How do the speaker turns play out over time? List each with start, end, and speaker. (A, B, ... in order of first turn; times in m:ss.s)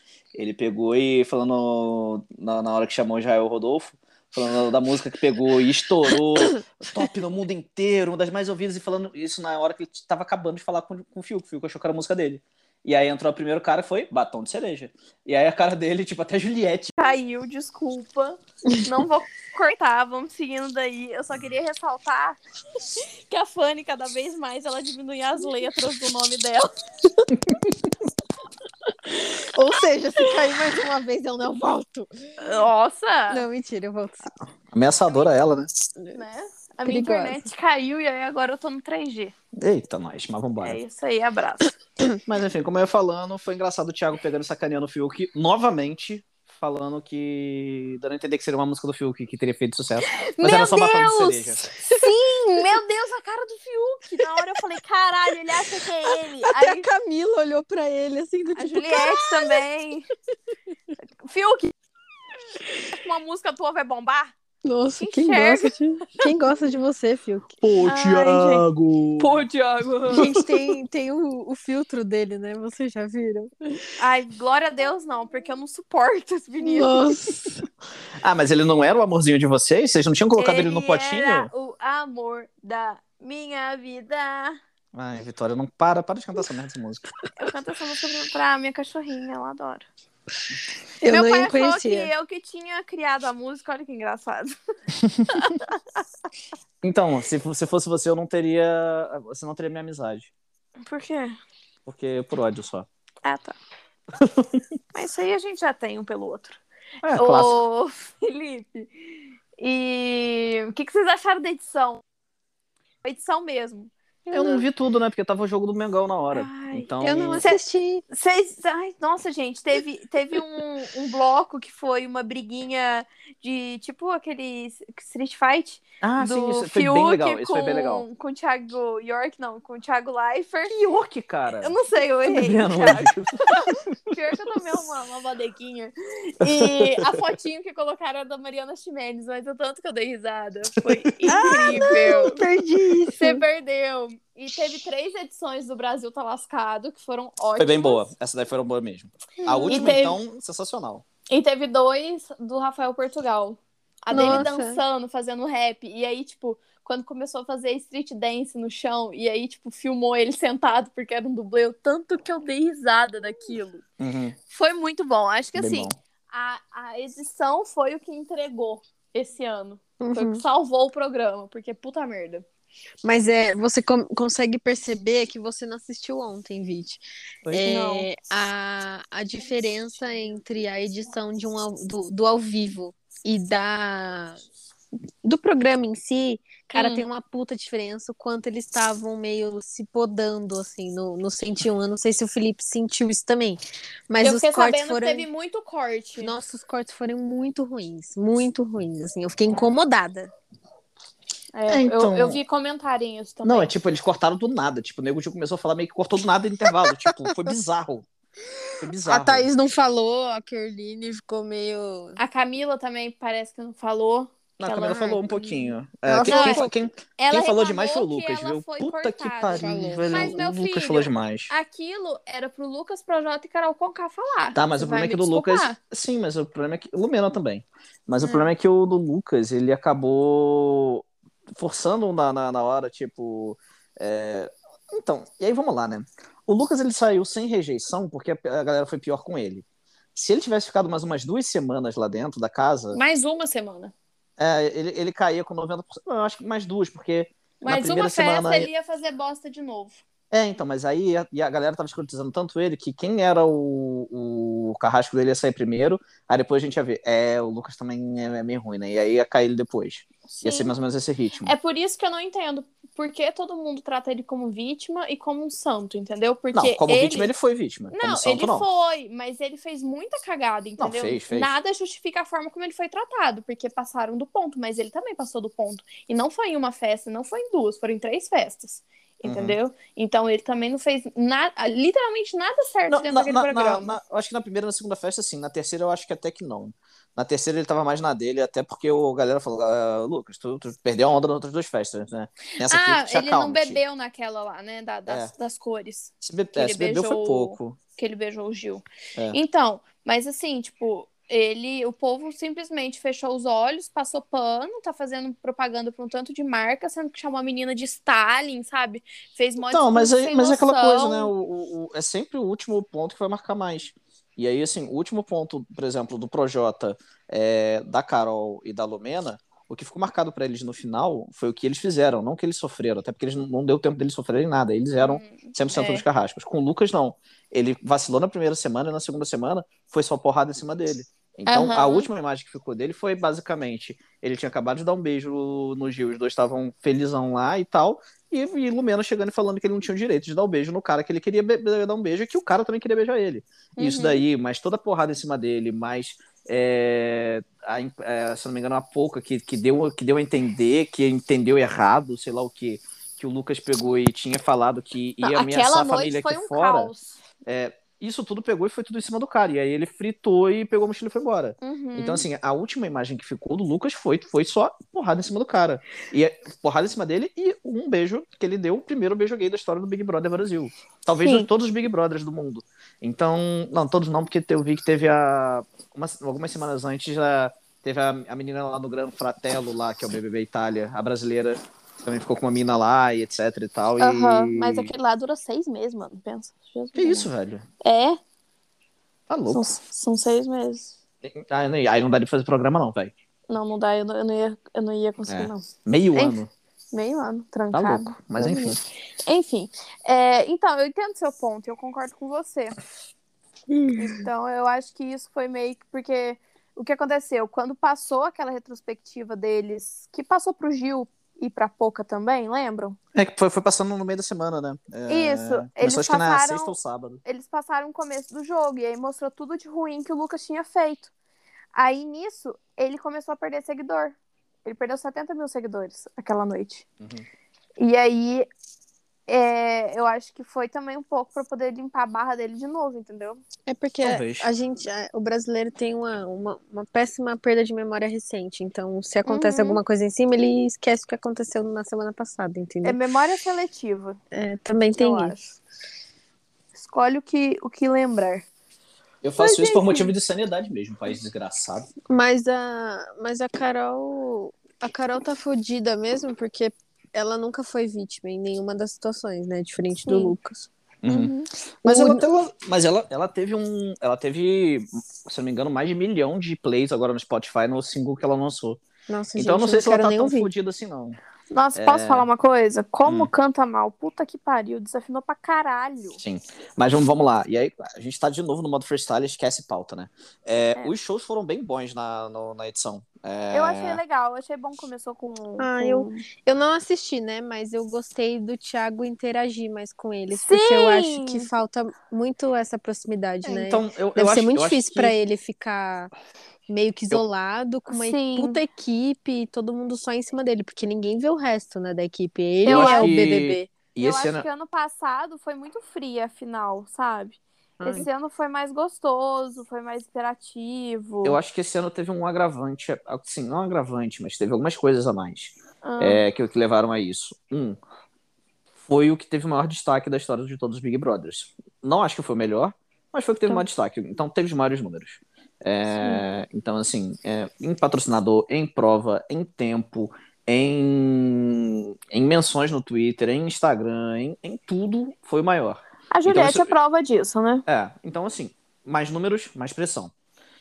0:00.4-0:17.1 A
0:17.0-0:22.4 B
0:23.0-0:26.7 B
0:29.2-0:32.4 C
0:32.4-0:33.4 B
0:33.3-0:34.3 C
0:34.7-0:35.7 A
0:36.1-0:39.3 B
0:36.8-0:37.5 C
0:39.6-0:40.8 A
0:40.6-0:41.7 B
0:42.2-0:51.6 A
0:50.1-0:56.9 B
0:56.4-0:59.6 C
0:58.6-1:00.1 B
1:01.2-1:01.7 B
1:02.9-1:04.3 B
1:04.6-1:07.6 C
1:05.0-1:05.7 B
1:07.6-1:09.4 A
1:07.8-1:08.6 B
1:09.2-1:10.3 B
1:10.1-1:13.8 C
1:10.1-1:10.4 A
1:14.0-1:17.2 B
1:16.6-1:17.6 C
1:18.2-1:21.5 A
1:20.4-1:24.6 B
1:24.9-1:27.1 A
1:27.4-1:29.9 B
1:31.0-1:32.1 C
1:31.0-1:34.6 B
1:35.3-1:35.8 B
1:36.8-1:40.3 A
1:40.8-1:41.4 B
1:41.9-1:42.9 A
1:43.2-1:43.6 B
1:44.1-1:44.6 A
1:44.9-1:46.6 B
1:47.0-1:47.6 A
1:47.2-1:49.0 B
1:49.6-1:52.0 B
1:53.0-1:54.6 B
1:54.3-1:57.4 A
1:56.3-2:10.8 B
1:57.0-1:58.0 C
2:06.0-2:08.0 A
2:10.7-2:11.8 A
2:11.6-2:22.4 B
2:12.3-2:13.8 A
2:16.4-2:17.1 A
2:21.2-2:21.9 A
2:21.3-2:23.4 C
2:23.1-2:28.0 B
2:27.6-2:31.0 A
2:29.4-2:30.2 B
2:29.5-2:29.9 C
2:31.3-2:43.8 B
2:34.1-2:34.5 A
2:34.1-2:34.8 C
2:44.0-2:44.4 A
2:44.5-2:52.5 B
2:45.6-2:46.0 A
2:50.0-2:50.4 C
2:53.0-3:04.4 C
2:57.6-2:58.1 B
3:05.2-3:15.3 C
3:06.7-3:07.0 B
3:14.2-3:16.4 B
3:16.2-3:20.3 C
3:21.5-3:23.7 B
3:21.7-3:22.4 A
3:23.4-3:28.1 A
3:28.7-3:32.2 C
3:28.8-3:29.5 A
3:32.2-3:36.7 B
3:34.6-3:41.5 A
3:36.1-3:36.7 C
3:37.2-3:45.8 B
3:39.6-3:40.4 C
3:44.6-3:51.0 A
3:48.2-3:48.5 B
3:51.6-4:03.0 A
4:02.9-4:03.9 B
4:04.4-4:08.7 A
4:07.6-4:10.0 B
4:10.3-4:21.5 A
4:20.3-4:20.7 B
4:21.4-4:27.3 B
4:26.5-4:28.7 A
4:27.9-4:44.0 B
4:30.8-4:31.6 A
4:39.2-4:39.6 A
4:42.9-4:53.8 A
4:52.6-5:11.3 B
4:55.1-4:55.3 A
4:56.2-4:57.8 A
5:09.7-5:56.9 A
5:25.0-5:26.0 B
5:31.5-5:32.1 B
5:43.8-5:44.2 B
5:55.2-5:57.2 B
5:57.4-6:24.9 A
6:01.6-6:02.2 B
6:11.2-6:11.5 B
6:24.0-6:27.3 B
6:27.0-6:27.7 A
6:27.8-6:28.2 B
6:29.3-6:29.7 A
6:29.5-6:30.9 B
6:31.2-6:33.1 A
6:33.5-6:36.4 B
6:35.3-6:36.5 A
6:36.9-6:42.8 B
6:37.7-6:38.8 A
6:43.7-6:44.3 C
6:44.0-6:53.0 B
6:53.2-6:57.2 A
6:55.1-7:01.1 B
7:01.7-7:06.8 B
7:07.0-7:07.3 A
7:07.8-7:08.5 B
7:09.3-7:13.4 B
7:13.7-7:23.0 C
7:14.0-7:14.5 A
7:19.3-7:19.8 B
7:22.8-7:24.2 B
7:24.3-7:25.4 C
7:25.0-7:25.6 B
7:26.8-7:28.5 B
7:29.2-7:31.9 A
7:29.4-7:30.1 B
7:32.1-7:40.7 C
7:40.0-7:40.4 B
7:41.0-7:48.8 A
7:41.1-7:41.5 B
7:41.9-7:42.2 C
7:49.1-7:50.5 C
7:49.4-7:51.2 A
7:51.5-7:56.2 B
7:51.8-7:52.3 A
7:53.1-7:53.3 A
7:56.2-8:04.0 A
8:03.5-8:06.3 B
8:05.6-8:16.1 C
8:10.3-8:11.5 B
8:13.4-8:15.1 A
8:16.7-8:23.7 C
8:17.9-8:18.6 B
8:22.6-8:23.2 B
8:22.7-8:24.5 A
8:24.0-8:31.4 B
8:27.8-8:28.1 C
8:31.2-8:37.8 A
8:35.8-8:36.2 B
8:38.9-8:56.7 A
8:46.0-8:46.3 B
8:56.1-8:57.6 B
8:57.7-9:00.1 A